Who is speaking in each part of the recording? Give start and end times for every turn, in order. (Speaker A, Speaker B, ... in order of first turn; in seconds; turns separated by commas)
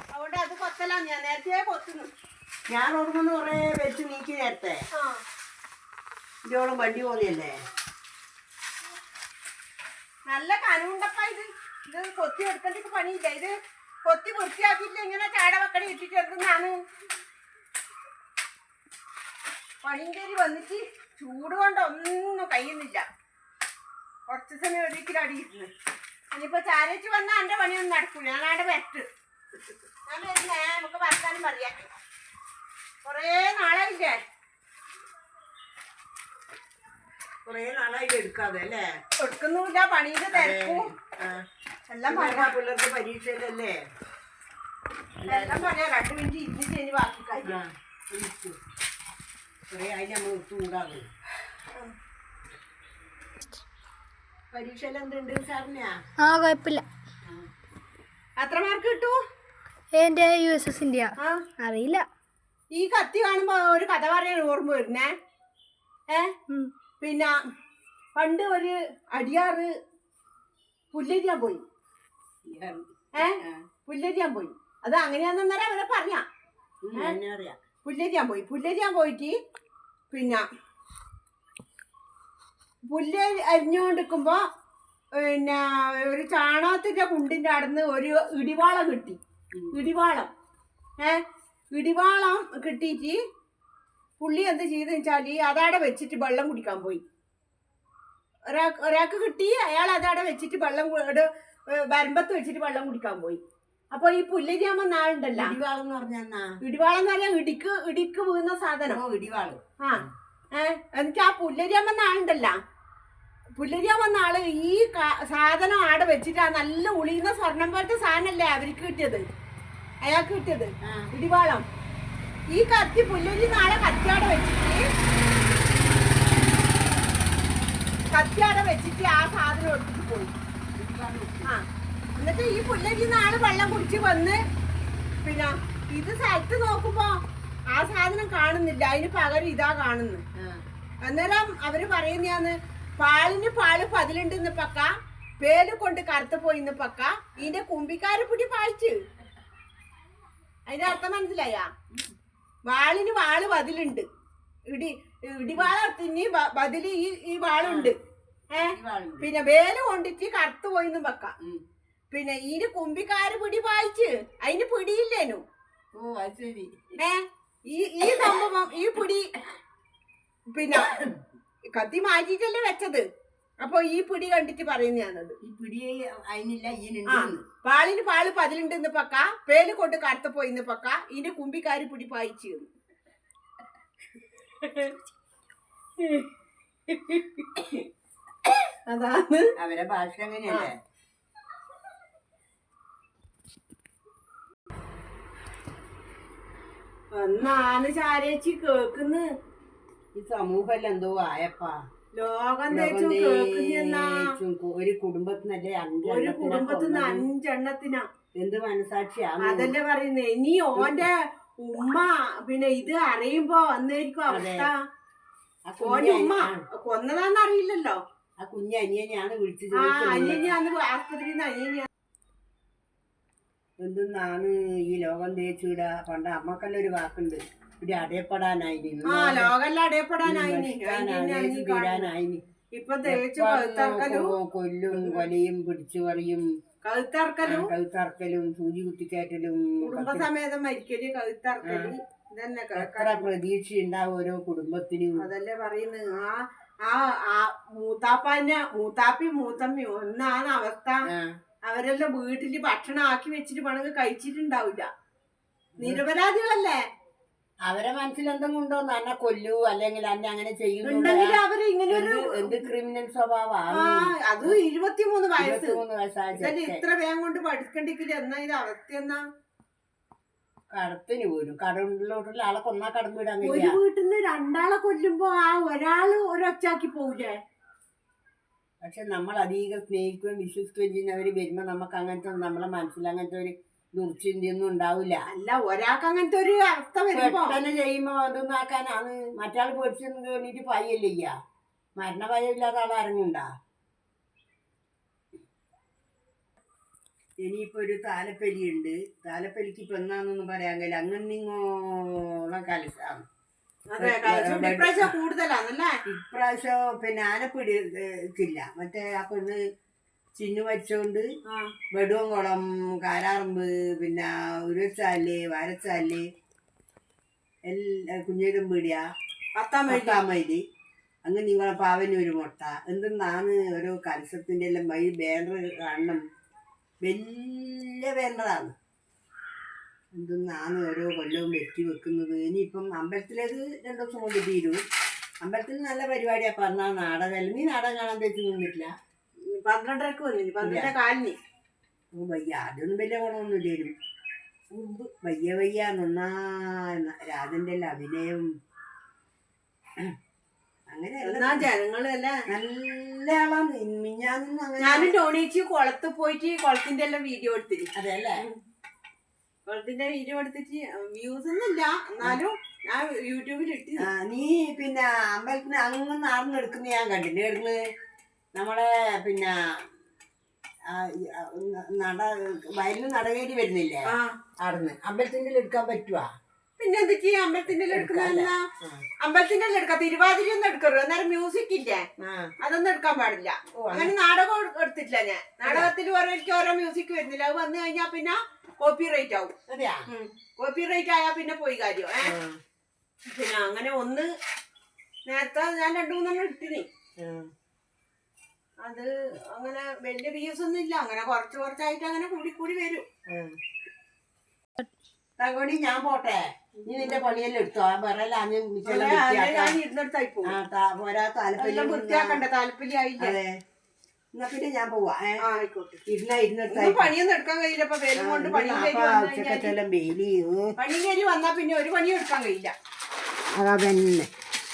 Speaker A: 0.1-2.1, Speaker B: 2.7-4.8, Speaker B: 6.5-7.6, Speaker A: 10.3-13.5, Speaker A: 14.1-16.8, Speaker A: 19.8-23.0, Speaker A: 24.3-25.7, Speaker A: 26.3-29.1, Speaker A: 30.1-31.8, Speaker A: 33.0-34.2, Speaker B: 37.4-38.9, Speaker A: 39.2-40.9, Speaker B: 40.3-41.4, Speaker A: 41.9-42.5, Speaker B: 42.1-43.8, Speaker B: 45.2-45.7, Speaker A: 45.2-47.6, Speaker B: 47.4-48.5, Speaker B: 49.7-51.1, Speaker B: 54.5-55.9, Speaker C: 56.2-56.8, Speaker A: 58.4-59.2, Speaker C: 59.9-62.0, Speaker A: 62.7-65.1, Speaker A: 67.0-67.3, Speaker A: 68.2-69.7, Speaker A: 70.9-71.6, Speaker B: 72.4-73.7, Speaker A: 73.2-76.2, Speaker B: 76.8-77.6, Speaker A: 77.8-79.4, Speaker A: 80.1-80.4, Speaker A: 82.9-84.4, Speaker A: 85.2-89.2, Speaker A: 89.7-90.3, Speaker A: 91.0-93.2, Speaker A: 94.2-97.0, Speaker A: 98.5-103.4, Speaker A: 103.9-105.5, Speaker B: 105.3-106.5, Speaker A: 106.6-109.0, Speaker B: 108.8-110.1, Speaker A: 109.8-112.5, Speaker A: 113.6-119.2, Speaker A: 120.0-121.6, Speaker B: 120.8-121.1, Speaker A: 122.5-124.8, Speaker A: 128.1-130.3, Speaker B: 130.8-131.5, Speaker A: 132.2-134.4, Speaker A: 135.2-137.2, Speaker A: 137.7-140.2, Speaker A: 141.0-149.0, Speaker A: 150.7-151.7, Speaker A: 152.7-154.1, Speaker A: 154.7-157.9, Speaker B: 157.6-157.9, Speaker A: 158.5-161.3, Speaker B: 158.6-159.3, Speaker A: 162.1-165.4, Speaker B: 165.9-166.8, Speaker A: 167.0-169.3, Speaker A: 170.5-171.0, Speaker A: 171.8-173.0, Speaker A: 173.6-175.4, Speaker B: 175.4-177.4, Speaker A: 177.1-182.7, Speaker A: 184.6-184.9, Speaker A: 186.0-186.3, Speaker A: 186.9-187.8, Speaker A: 188.9-189.5, Speaker B: 189.6-190.7, Speaker A: 197.1-199.3, Speaker B: 200.1-201.8, Speaker A: 202.1-204.3, Speaker B: 202.7-207.2, Speaker A: 206.0-208.0, Speaker B: 208.4-209.7, Speaker A: 209.4-214.8, Speaker B: 210.8-211.0, Speaker B: 214.3-214.7, Speaker B: 215.7-216.6, Speaker A: 215.8-218.0, Speaker B: 218.4-220.5, Speaker A: 219.8-221.9, Speaker B: 223.8-229.5, Speaker A: 229.1-232.1, Speaker B: 230.2-232.4, Speaker A: 232.7-234.3, Speaker B: 233.0-236.4, Speaker A: 234.9-235.2, Speaker A: 236.8-237.7, Speaker B: 237.4-240.3, Speaker A: 239.8-243.3, Speaker B: 241.6-241.9, Speaker B: 242.7-245.2, Speaker A: 245.2-251.0, Speaker B: 251.1-251.3, Speaker A: 251.7-254.9, Speaker A: 255.8-256.8, Speaker B: 257.7-264.6, Speaker A: 260.8-262.6, Speaker A: 263.7-265.8, Speaker B: 265.4-266.8, Speaker A: 266.4-269.2, Speaker B: 270.7-273.8, Speaker A: 273.4-277.4, Speaker B: 278.8-285.2, Speaker A: 285.3-287.6, Speaker B: 287.1-291.3, Speaker B: 292.0-293.5, Speaker B: 297.4-303.2, Speaker A: 303.9-306.0, Speaker B: 304.0-305.1, Speaker B: 306.1-309.6, Speaker B: 310.3-311.2, Speaker B: 311.9-316.2, Speaker B: 317.7-319.0, Speaker A: 319.6-320.2, Speaker B: 319.9-320.6, Speaker B: 321.2-326.2, Speaker B: 327.0-328.7, Speaker B: 330.1-334.8, Speaker B: 335.4-338.9, Speaker A: 339.5-341.4, Speaker B: 340.6-340.9, Speaker B: 342.1-343.9, Speaker B: 344.7-348.4, Speaker B: 350.9-351.6, Speaker A: 351.2-352.4, Speaker B: 352.5-355.1, Speaker A: 354.8-357.9, Speaker B: 357.9-358.4, Speaker A: 359.6-364.1, Speaker B: 364.0-367.8, Speaker B: 368.5-369.8, Speaker B: 370.9-376.3, Speaker A: 374.1-374.4, Speaker A: 376.8-378.6, Speaker B: 377.9-379.0, Speaker A: 379.2-382.1, Speaker B: 382.2-382.5, Speaker A: 382.6-389.5, Speaker B: 383.8-384.1, Speaker B: 385.6-385.9, Speaker B: 389.7-390.1, Speaker A: 390.1-392.3, Speaker B: 392.2-392.6, Speaker A: 393.3-394.3, Speaker A: 395.2-396.9, Speaker B: 397.2-397.5, Speaker A: 398.8-403.0, Speaker B: 403.3-403.5, Speaker B: 405.4-409.8, Speaker A: 406.8-407.3, Speaker A: 408.8-410.6, Speaker B: 410.4-412.4, Speaker A: 411.6-413.4, Speaker B: 413.2-413.6, Speaker B: 414.3-415.4, Speaker A: 415.4-416.0, Speaker B: 416.1-417.1, Speaker A: 416.7-419.7, Speaker B: 418.1-420.8, Speaker A: 420.8-422.7, Speaker B: 423.5-424.3